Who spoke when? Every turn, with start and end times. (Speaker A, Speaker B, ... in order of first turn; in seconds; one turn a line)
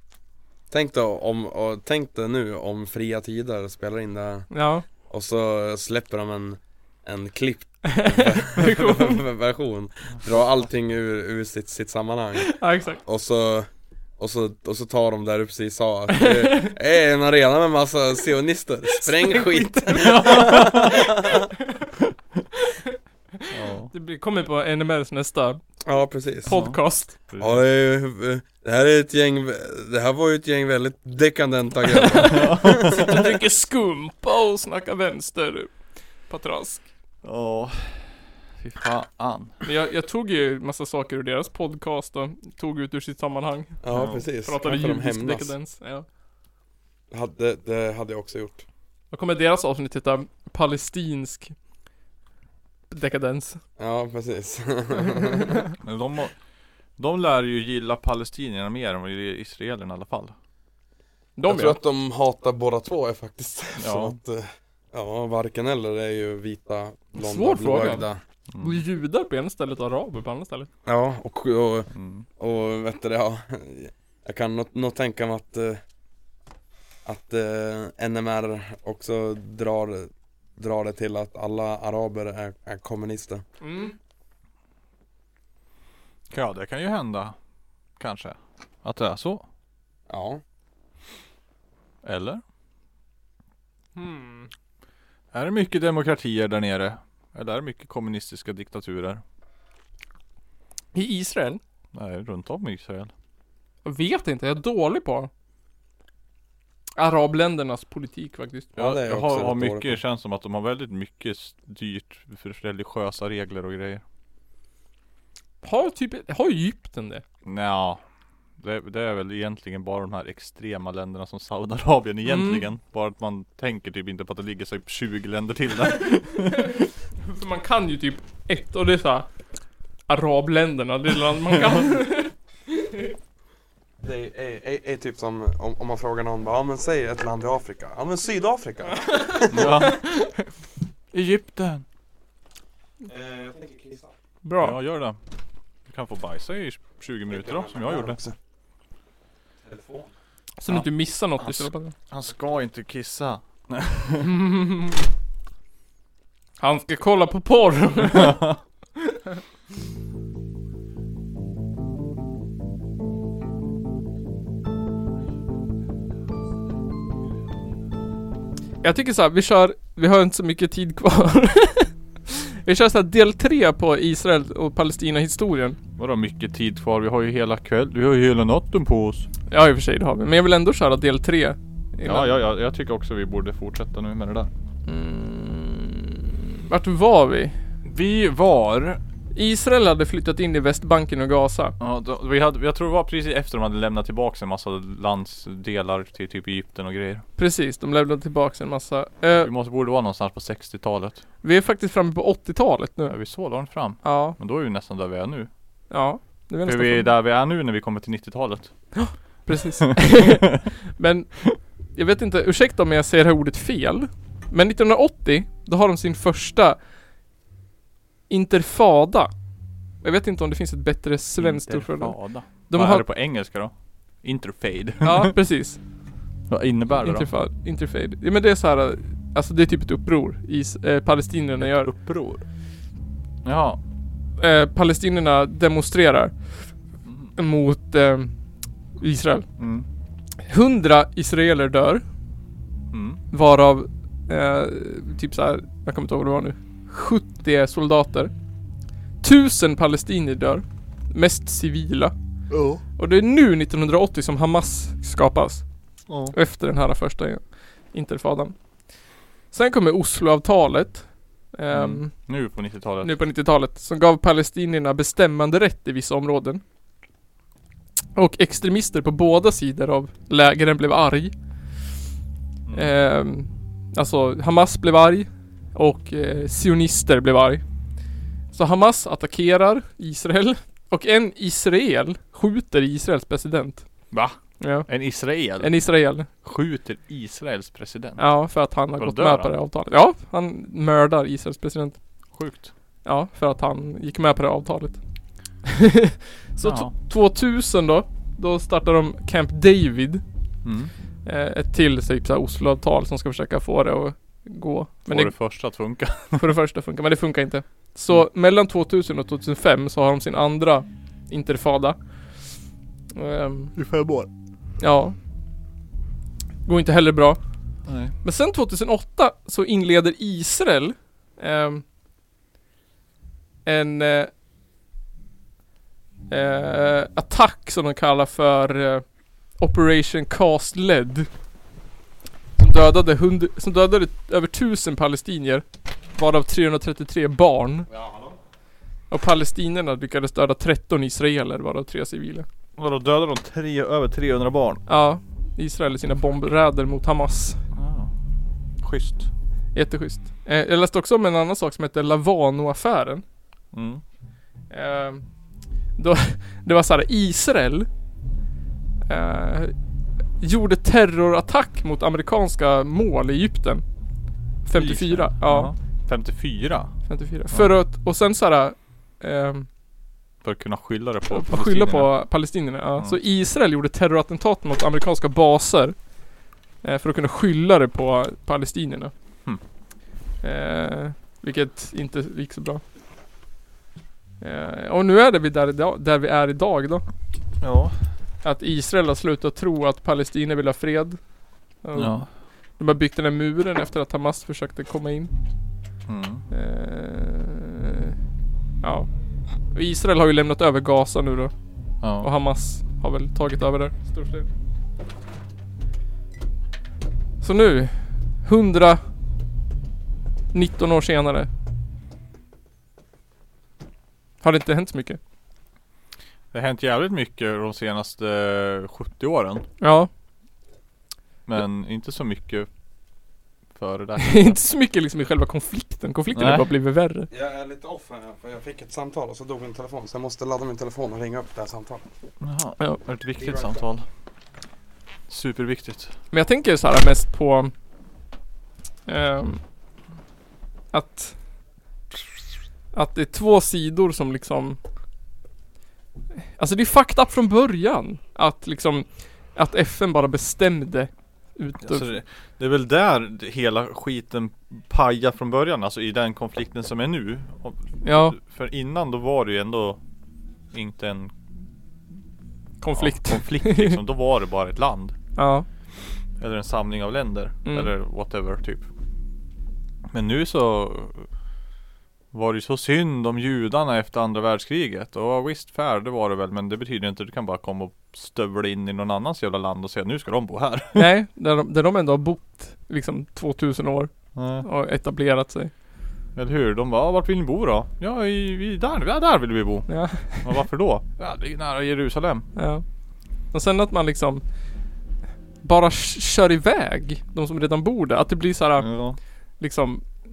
Speaker A: 0.7-4.5
Speaker B: 4.5-4.8
Speaker A: 5.1-21.5
Speaker B: 7.8-9.2
Speaker B: 12.4-13.0
Speaker B: 16.1-16.8
Speaker B: 18.9-21.8
Speaker C: 20.0-21.0
Speaker B: 22.7-22.9
Speaker B: 23.5-25.6
Speaker C: 23.5-23.9
Speaker A: 25.8-26.6
Speaker B: 26.4-27.1
Speaker C: 26.5-27.6
Speaker A: 27.4-33.3
Speaker B: 31.9-35.7
Speaker C: 32.3-33.1
Speaker B: 36.3-36.9
Speaker C: 37.2-39.6
Speaker B: 39.6-43.8
Speaker A: 43.8-45.5
Speaker C: 43.9-44.2
Speaker B: 44.4-46.0
Speaker A: 47.1-48.6
Speaker B: 49.1-51.5
Speaker B: 52.9-53.6
Speaker A: 53.8-55.6
Speaker B: 55.3-55.6
Speaker C: 55.8-56.3
Speaker C: 57.0-60.3
Speaker B: 61.4-61.8
Speaker A: 61.4-68.2
Speaker C: 63.8-64.2
Speaker B: 67.2-68.0
Speaker C: 68.5-68.8
Speaker B: 68.6-70.7
Speaker A: 70.8-75.8
Speaker C: 71.9-72.2
Speaker A: 77.0-83.4
Speaker B: 83.6-83.9
Speaker C: 86.3-87.3
Speaker C: 88.0-89.4
Speaker A: 90.1-90.4
Speaker C: 92.0-92.4
Speaker B: 93.9-94.5
Speaker C: 95.3-99.2
Speaker B: 100.9-101.6
Speaker C: 101.9-103.1
Speaker B: 103.8-105.3
Speaker B: 107.0-108.7
Speaker A: 108.7-110.0
Speaker C: 108.8-114.0
Speaker B: 115.6-117.2
Speaker C: 117.4-118.0
Speaker C: 118.6-126.8
Speaker B: 122.2-122.7
Speaker B: 126.4-129.3
Speaker B: 130.1-133.1
Speaker A: 134.0-139.9
Speaker B: 139.1-140.5
Speaker C: 139.5-140.0
Speaker C: 141.1-141.8
Speaker A: 143.0-144.1
Speaker B: 144.4-144.8
Speaker C: 144.6-145.2
Speaker C: 145.9-148.2
Speaker A: 147.3-148.3
Speaker A: 149.6-150.1
Speaker B: 150.6-151.9
Speaker C: 151.4-154.3
Speaker B: 154.2-155.0
Speaker B: 156.6-158.4
Speaker C: 158.2-158.6
Speaker B: 168.8-175.8
Speaker C: 176.0-179.3
Speaker B: 179.5-182.3
Speaker C: 182.0-184.5
Speaker B: 184.8-187.6
Speaker C: 187.8-189.0
Speaker B: 189.3-191.8
Speaker C: 191.8-197.2
Speaker B: 197.4-199.5
Speaker C: 199.4-201.2
Speaker B: 201.4-203.2
Speaker C: 203.1-205.5
Speaker B: 204.0-204.4
Speaker B: 205.9-207.1
Speaker C: 206.7-209.2
Speaker B: 208.9-216.8
Speaker B: 218.3-219.3
Speaker B: 220.0-223.0
Speaker C: 221.4-225.3
Speaker B: 225.0-225.8
Speaker C: 226.5-227.3
Speaker B: 227.0-231.9
Speaker C: 231.6-232.4
Speaker C: 233.4-233.8
Speaker B: 234.4-236.4
Speaker C: 237.0-237.3
Speaker B: 237.3-238.3
Speaker B: 239.0-239.5
Speaker C: 239.6-239.8
Speaker B: 240.4-242.0
Speaker C: 242.9-243.2
Speaker B: 243.3-248.3
Speaker B: 249.2-252.1
Speaker C: 252.5-252.8
Speaker B: 253.0-255.7
Speaker C: 256.1-256.3
Speaker B: 256.3-258.5
Speaker B: 259.5-262.1
Speaker C: 261.7-263.1
Speaker B: 263.0-266.6
Speaker B: 268.1-271.3
Speaker C: 272.6-272.9
Speaker B: 272.7-277.6
Speaker B: 278.5-283.9
Speaker C: 284.1-288.3
Speaker B: 284.6-284.9
Speaker B: 285.6-286.3
Speaker B: 288.2-292.0
Speaker C: 289.0-289.5
Speaker C: 292.3-292.7
Speaker B: 293.0-295.0
Speaker B: 295.6-300.2
Speaker C: 296.6-296.9
Speaker C: 300.6-300.9
Speaker B: 301.2-305.3
Speaker C: 305.1-306.5
Speaker B: 306.4-312.0
Speaker B: 313.1-313.7
Speaker C: 313.8-314.3
Speaker B: 314.8-315.2
Speaker B: 316.6-317.4
Speaker C: 317.9-318.1
Speaker B: 318.2-321.8
Speaker B: 323.6-324.3
Speaker B: 326.3-329.1
Speaker B: 329.6-331.3
Speaker B: 332.6-337.9
Speaker A: 337.9-338.3
Speaker B: 339.1-342.5
Speaker C: 342.8-344.8
Speaker B: 344.9-347.6
Speaker C: 347.7-348.1
Speaker C: 348.8-349.3
Speaker B: 349.7-353.2
Speaker C: 353.7-354.0
Speaker B: 354.7-355.2
Speaker B: 355.9-357.9
Speaker B: 359.1-359.7
Speaker B: 360.4-363.8
Speaker B: 364.6-365.7
Speaker C: 364.7-366.9
Speaker B: 367.1-369.7
Speaker C: 370.4-372.1
Speaker B: 371.3-376.0
Speaker B: 376.8-379.1
Speaker B: 380.4-382.8
Speaker B: 384.4-387.0
Speaker C: 387.6-387.9
Speaker B: 388.4-391.2
Speaker B: 391.8-392.2
Speaker C: 391.9-392.3
Speaker B: 392.8-395.3
Speaker C: 396.1-396.4
Speaker B: 396.5-398.1
Speaker B: 398.8-399.1
Speaker B: 399.7-401.5
Speaker C: 402.0-402.3
Speaker B: 402.2-404.5
Speaker B: 407.4-409.0
Speaker B: 410.5-411.5
Speaker B: 414.4-415.2
Speaker C: 416.5-419.6
Speaker B: 419.8-420.1
Speaker C: 421.4-422.7
Speaker C: 423.8-424.6
Speaker B: 424.2-427.3
Speaker C: 426.3-426.6
Speaker A: 427.3-432.0
Speaker C: 432.4-434.1
Speaker A: 433.4-433.8
Speaker C: 435.3-436.1
Speaker B: 436.3-437.7
Speaker B: 439.1-439.6
Speaker B: 440.9-441.4
Speaker B: 442.9-444.8
Speaker B: 446.6-452.1
Speaker C: 451.8-460.0
Speaker B: 458.0-458.4
Speaker C: 460.7-461.3
Speaker B: 462.8-464.0
Speaker C: 462.9-465.1
Speaker B: 465.4-465.6
Speaker C: 466.4-468.9
Speaker C: 470.1-471.3
Speaker C: 472.3-481.1
Speaker B: 480.9-485.7
Speaker C: 484.3-484.6
Speaker C: 486.3-492.5
Speaker B: 489.9-490.6
Speaker B: 492.5-492.8
Speaker B: 493.5-494.4
Speaker B: 495.6-499.0
Speaker C: 498.8-499.2
Speaker B: 499.6-500.1